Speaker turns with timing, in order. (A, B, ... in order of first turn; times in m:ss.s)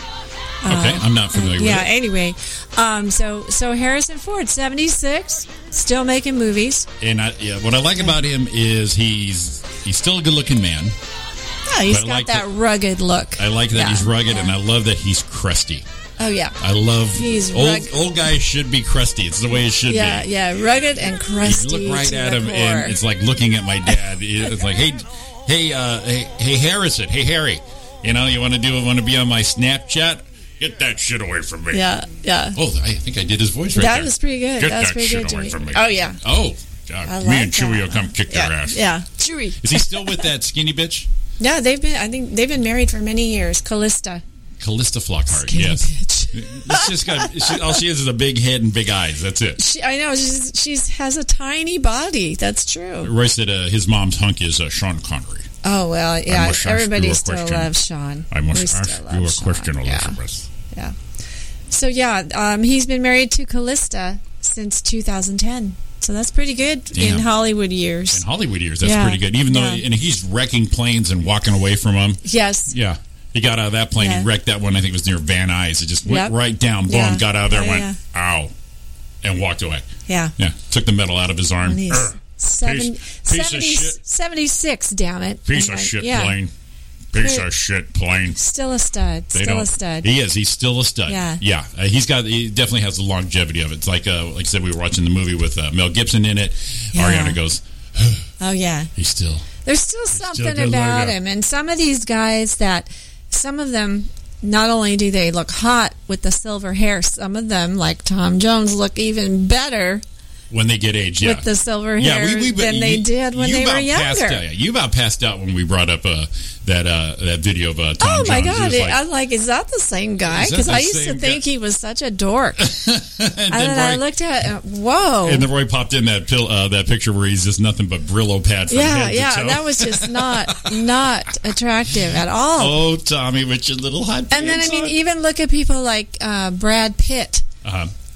0:00.6-0:06.9 A
0:00.7-0:01.9 B
0:07.0-0:11.0 B
0:11.7-0:14.2 A
0:11.9-0:12.5 B
0:13.4-0:15.8 B
0:16.2-0:16.6 A
0:16.6-0:20.3 B
0:17.1-0:17.9 A
0:19.9-0:23.0 A
0:21.4-0:31.9 B
0:31.7-0:32.6 A
0:32.5-0:38.9 B
0:33.7-0:36.2 A
0:37.0-0:40.3 A
0:39.6-0:41.1 B
0:41.4-0:44.2 A
0:44.6-0:49.6 B
0:45.3-0:47.7 A
0:49.6-0:53.1 A
0:53.0-0:55.5 B
0:55.6-1:00.2 A
0:56.2-0:57.7 B
0:58.3-1:00.5 B
1:01.7-1:08.2 A
1:06.9-1:07.3 B
1:08.1-1:18.5 B
1:08.8-1:09.8 A
1:12.2-1:12.7 A
1:14.0-1:14.3 A
1:16.0-1:18.0 A
1:19.2-1:24.0 B
1:20.1-1:20.3 A
1:21.6-1:26.4 A
1:25.4-1:26.5 B
1:27.1-1:28.4 B
1:27.2-1:27.4 A
1:28.3-1:30.1 A
1:29.3-1:38.3 B
1:31.0-1:31.4 A
1:36.9-1:37.4 A
1:38.4-1:38.9 A
1:39.0-1:39.5 B
1:39.6-1:50.0 A
1:40.1-1:41.2 B
1:50.5-1:59.0 B
1:51.2-1:54.4 A
1:58.0-2:02.7 A
2:00.3-2:01.4 B
2:02.6-2:04.0 B
2:03.5-2:05.4 A
2:05.2-2:10.9 B
2:08.7-2:12.8 A
2:12.6-2:15.0 B
2:14.3-2:17.4 A
2:17.6-2:17.9 B